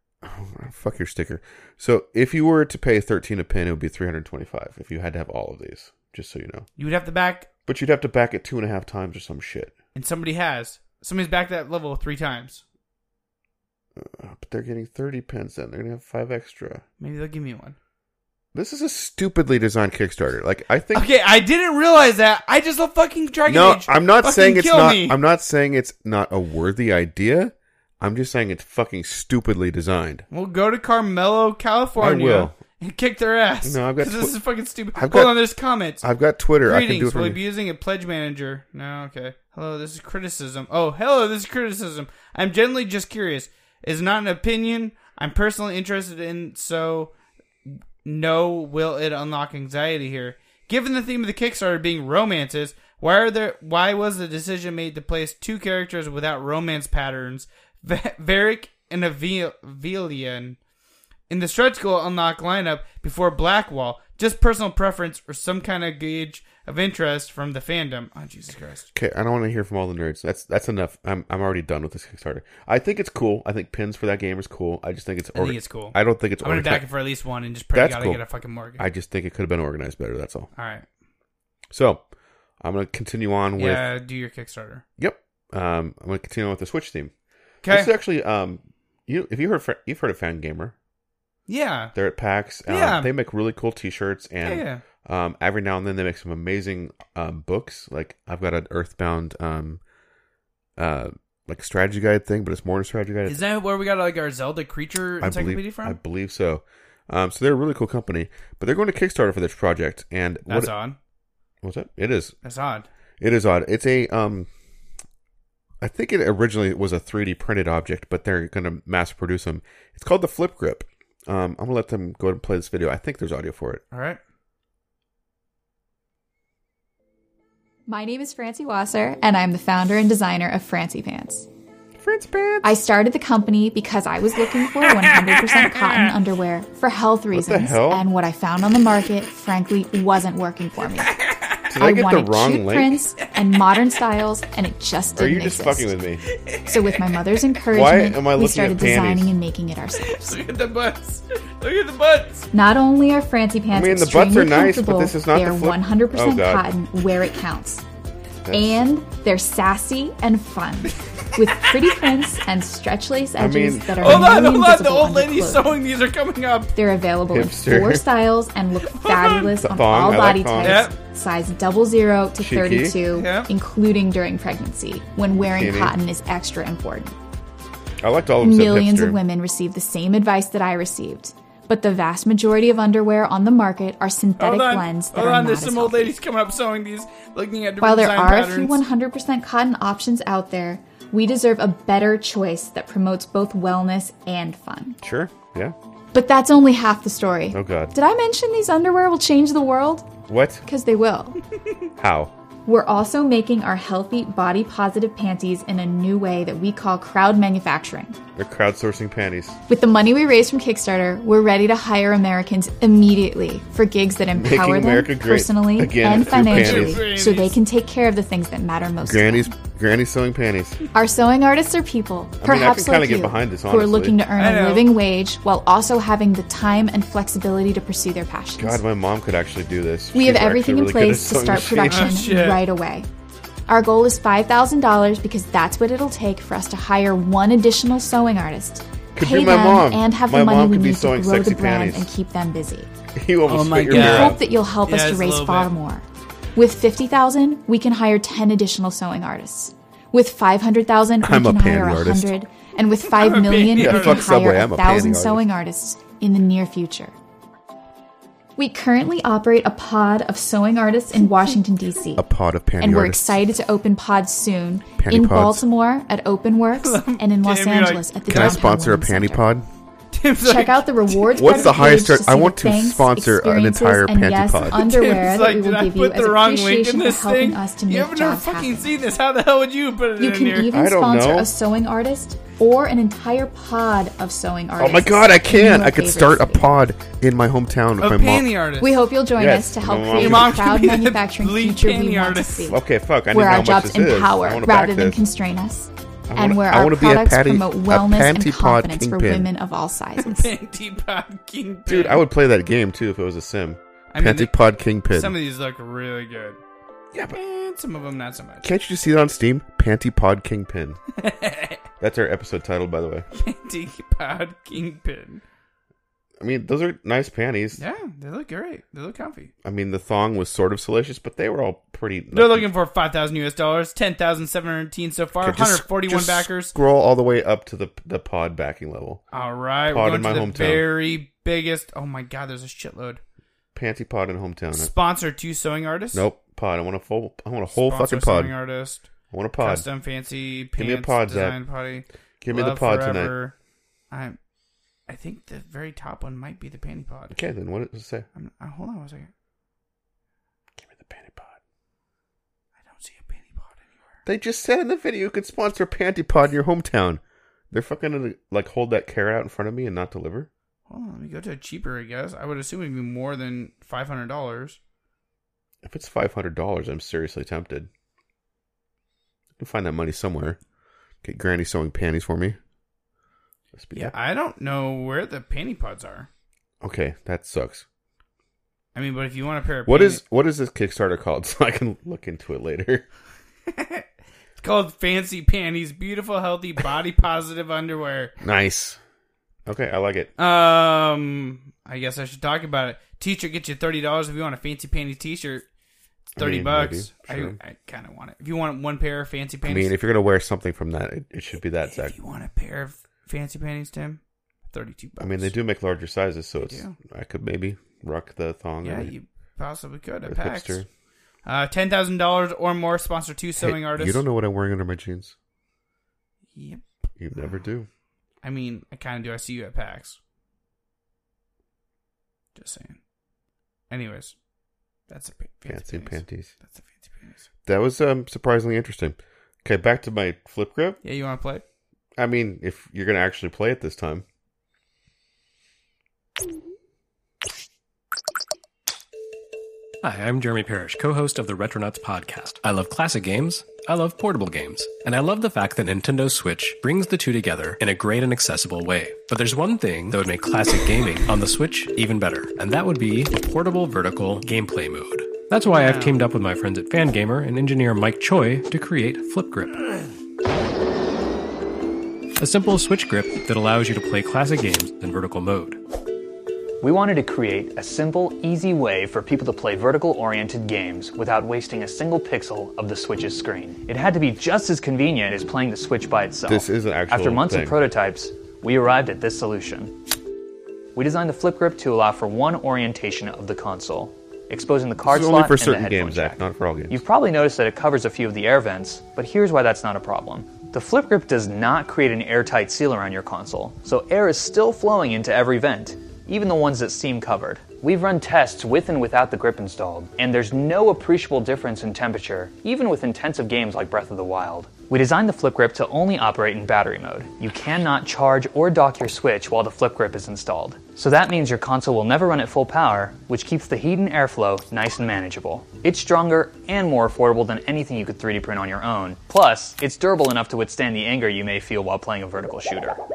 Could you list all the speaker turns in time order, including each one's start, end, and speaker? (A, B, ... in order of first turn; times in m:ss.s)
0:00.2-0:06.7 A
0:06.8-0:07.5 B
0:07.6-0:09.7 A
0:09.9-0:12.6 B
0:14.0-0:16.8 A
0:17.0-0:17.8 B
0:18.5-0:21.1 A
0:20.9-0:25.2 B
0:23.5-0:30.2 A
0:30.3-0:36.0 B
0:32.0-0:32.6 A
0:33.6-0:34.4 A
0:34.9-0:35.4 A
0:36.0-0:37.4 A
0:36.6-0:47.1 B
0:47.6-1:00.6 B
1:01.3-1:08.9 B
1:08.9-1:16.9 A
1:15.3-1:18.8 B
1:17.7-1:18.2 A
1:18.8-1:20.5 A
1:20.6-1:20.8 B
1:21.7-1:22.0 A
1:22.6-1:23.9 A
1:23.6-1:24.8 B
1:25.0-1:27.1 A
1:27.6-1:27.9 B
1:27.6-1:30.7 A
1:31.5-1:31.9 B
1:31.9-1:39.8 A
1:32.7-1:33.1 B
1:34.4-1:34.8 B
1:40.8-1:43.4 A
1:43.3-1:46.0 B
1:45.2-1:50.7 A
1:50.5-1:51.0 B
1:51.6-1:52.3 A
1:52.4-1:52.9 B
1:53.2-1:54.5 A
1:55.8-2:03.8 A
2:03.9-2:04.2 B
2:07.9-2:11.5 C
2:12.0-2:12.8 A
2:12.6-2:21.2 C
2:15.0-2:16.1 B
2:17.3-2:18.0 A
2:21.1-2:21.6 B
2:21.7-2:23.0 A
2:21.8-2:25.9 C
2:25.2-2:26.2 A
2:26.3-2:26.8 B
2:26.6-2:30.4 C
2:27.7-2:29.3 A
2:30.0-2:32.5 B
2:32.5-2:37.8 C
2:33.7-2:36.7 A
2:38.4-2:38.8 A
2:38.5-2:45.8 C
2:41.4-2:41.9 B
2:43.4-2:44.3 A
2:44.0-2:46.7 B
2:46.7-2:57.2 C
2:47.3-2:48.0 A
2:48.9-2:49.5 B
2:49.5-2:50.8 A
2:50.6-2:50.9 B
2:52.4-2:53.0 A
2:53.1-2:53.5 B
2:55.4-2:56.0 A
2:58.0-2:59.2 A
2:58.4-3:06.1 C
3:04.4-3:08.8 B
3:07.8-3:15.0 C
3:15.0-3:15.8 A
3:16.1-3:21.4 C
3:17.5-3:17.9 A
3:20.3-3:20.6 A
3:22.0-3:22.3 A
3:22.6-3:28.2 C
3:28.4-3:29.6 A
3:29.7-3:39.5 C
3:34.3-3:37.1 A
3:36.2-3:37.6 B
3:39.0-3:40.8 A
3:40.9-3:48.8 C
3:42.4-3:44.2 A
3:44.4-3:44.9 B
3:48.6-3:52.2 A
3:50.1-3:53.1 C
3:51.9-3:52.6 B
3:53.7-4:02.9 C
3:59.1-4:02.1 A
4:03.1-4:04.4 A
4:03.5-4:05.7 B
4:03.8-4:06.0 C
4:06.6-4:17.1 C
4:11.2-4:12.3 A
4:13.1-4:14.4 B
4:13.8-4:15.4 A
4:18.6-4:22.2 C
4:22.2-4:23.3 A
4:22.8-4:29.5 C
4:25.0-4:25.6 A
4:26.7-4:28.7 B
4:28.3-4:29.6 A
4:30.1-4:32.1 B
4:30.4-4:38.9 C
4:31.4-4:34.8 A
4:34.7-4:40.7 B
4:40.2-4:46.8 C
4:40.7-4:41.5 A
4:44.8-4:48.5 A
4:48.0-4:49.0 B
4:48.8-5:00.5 C
4:49.4-4:50.6 A
4:50.2-4:52.7 B
4:52.7-4:55.2 A
4:56.3-4:59.5 A
5:00.2-5:02.2 B
5:01.9-5:05.3 A
5:04.1-5:04.5 B
5:05.1-5:06.6 B
5:07.1-5:07.4 A
5:07.3-5:08.7 B
5:08.6-5:11.0 A
5:11.2-5:11.8 B
5:12.0-5:13.2 A
5:13.3-5:15.4 B
5:16.4-5:17.8 A
5:17.8-5:19.5 B
5:19.6-5:22.7 A
5:22.3-5:26.8 B
5:25.4-5:29.2 A
5:29.3-5:33.2 B
5:29.9-5:30.9 A
5:33.7-5:34.9 A
5:34.7-5:36.3 B
5:36.1-5:38.5 A
5:37.7-5:43.5 B
5:39.3-5:39.8 A
5:40.8-5:41.6 A
5:42.4-5:43.4 A
5:44.1-5:44.4 B
5:45.1-5:47.4 B
5:47.3-5:48.2 A
5:48.3-5:49.3 B
5:50.8-5:51.6 A
5:52.8-5:53.9 B
5:54.2-6:00.5 A
6:00.9-6:04.8 B
6:05.8-6:07.9 A
6:09.6-6:10.6 A
6:11.2-6:12.6 A
6:13.7-6:14.1 A
6:13.9-6:16.3 B
6:16.8-6:17.8 A
6:18.9-6:20.2 B
6:19.8-6:23.0 A
6:23.7-6:24.0 B
6:24.6-6:28.3 B
6:28.4-6:29.0 A
6:29.6-6:30.3 A
6:30.4-6:35.6 B
6:36.2-6:39.9 B
6:36.4-6:37.6 A
6:39.6-6:42.2 A
6:41.8-6:45.6 B
6:45.2-6:49.1 A
6:46.7-6:47.0 B
6:48.8-6:50.8 B
6:50.2-6:50.8 A
6:51.4-6:54.2 B
6:53.6-6:55.3 A
6:56.5-6:56.8 B
6:57.2-6:57.9 A
6:58.4-7:00.2 B
7:02.6-7:03.0 B
7:03.9-7:04.3 B
7:05.1-7:07.4 B
7:05.7-7:06.5 A
7:07.6-7:11.0 A
7:11.0-7:11.6 B
7:12.2-7:14.2 A
7:20.0-7:39.9 D
7:35.7-7:36.2 B
7:42.4-7:45.8 D
7:46.8-7:59.9 E
7:56.5-7:57.8 A
8:00.9-8:43.0 E
8:05.0-8:07.0 A